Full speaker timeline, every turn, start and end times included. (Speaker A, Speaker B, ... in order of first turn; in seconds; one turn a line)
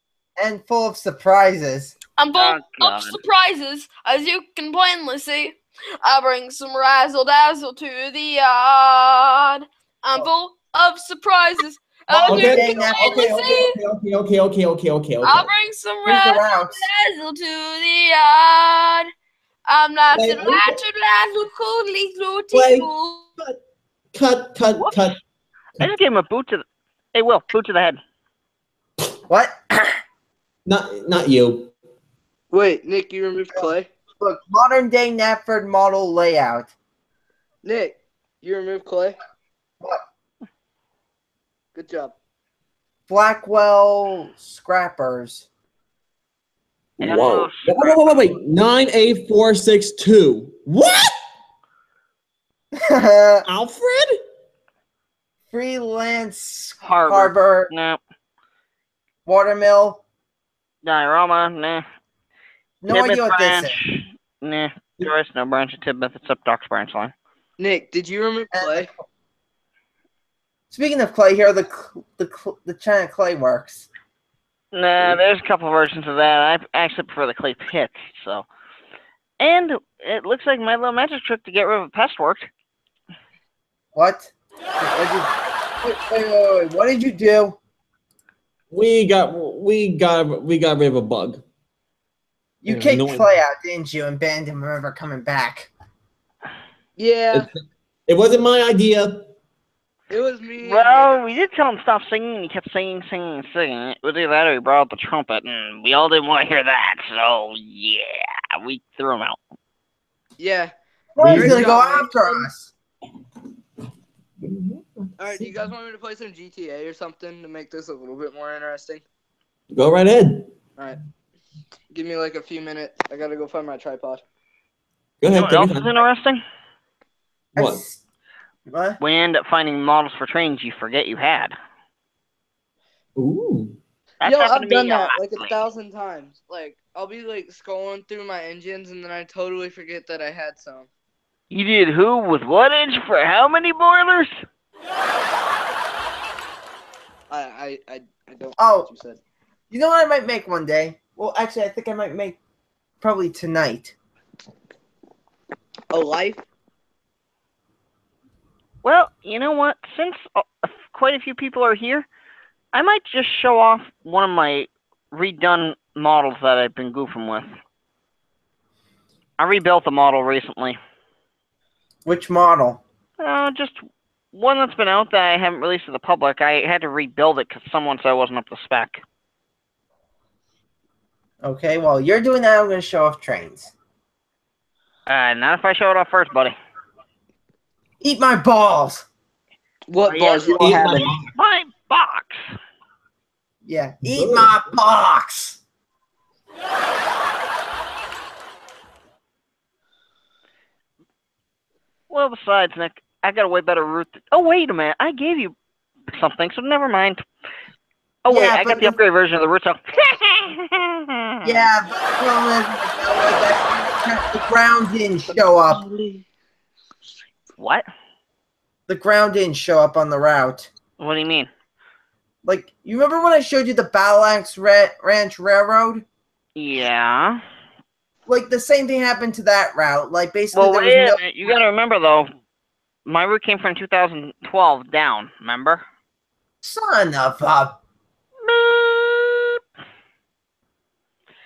Speaker A: 0.4-2.0
Speaker B: 2.2-13.8
Speaker C: 2.3-3.2
Speaker A: 12.1-13.7
Speaker D: 12.3-15.5
Speaker B: 15.2-19.1
Speaker A: 16.1-16.9
Speaker B: 19.7-23.2
Speaker D: 20.1-20.8
Speaker D: 22.5-23.6
Speaker D: 24.1-25.2
Speaker C: 25.8-28.0
Speaker A: 29.3-30.0
Speaker D: 30.7-31.7
Speaker E: 32.5-33.9
Speaker A: 34.2-36.7
Speaker E: 37.6-39.2
Speaker E: 41.8-42.1
Speaker A: 43.1-45.5
Speaker D: 47.0-51.2
Speaker C: 47.0-48.0
Speaker A: 52.8-53.5
Speaker D: 53.5-54.2
Speaker A: 55.5-57.7
Speaker C: 56.8-58.0
Speaker A: 59.3-60.0
Speaker C: 60.8-61.8
Speaker A: 62.8-63.8
Speaker C: 62.9-67.1
Speaker E: 67.6-68.9
Speaker A: 68.5-68.9
Speaker A: 70.7-73.9
Speaker C: 74.7-78.5
Speaker C: 79.4-82.5
Speaker A: 84.0-87.6
Speaker D: 88.7-91.4
Speaker A: 92.6-95.7
Speaker D: 92.7-93.3
Speaker E: 97.0-97.5
Speaker D: 97.3-99.3
Speaker E: 100.1-101.2
Speaker C: 100.6-109.4
Speaker E: 110.4-110.7
Speaker A: 111.2-112.7
Speaker D: 111.2-111.7
Speaker E: 111.3-112.5
Speaker D: 114.4-115.7
Speaker E: 115.2-119.0
Speaker D: 119.7-120.5
Speaker E: 121.9-124.2
Speaker D: 125.2-125.9
Speaker C: 125.3-126.4
Speaker D: 127.6-127.8
Speaker A: 127.6-128.0
Speaker A: 128.7-129.0
Speaker C: 129.0-131.6
Speaker D: 133.2-133.8
Speaker C: 134.2-135.5
Speaker E: 134.2-140.9
Speaker C: 141.5-144.4
Speaker E: 147.3-149.2
Speaker A: 148.6-148.9
Speaker A: 149.7-152.4
Speaker A: 153.0-153.9
Speaker E: 155.9-156.4
Speaker C: 158.8-162.1
Speaker C: 162.7-167.5
Speaker C: 169.4-170.8
Speaker A: 172.1-172.8
Speaker C: 173.2-179.0
Speaker A: 181.4-183.7
Speaker C: 185.1-186.6
Speaker A: 188.0-189.1
Speaker E: 189.9-191.2
Speaker C: 190.1-192.5
Speaker D: 190.6-191.3
Speaker A: 193.7-195.6
Speaker D: 194.1-194.5
Speaker C: 202.1-205.6
Speaker C: 206.1-207.2
Speaker C: 208.3-211.7
Speaker A: 208.3-209.0
Speaker A: 211.4-215.8
Speaker C: 215.8-216.2
Speaker C: 217.6-217.9
Speaker A: 218.9-220.7
Speaker C: 221.0-221.5
Speaker A: 222.4-226.1
Speaker C: 226.6-227.4
Speaker A: 228.3-231.2
Speaker C: 230.5-232.3
Speaker C: 233.1-235.8
Speaker A: 236.6-237.8
Speaker C: 238.4-239.6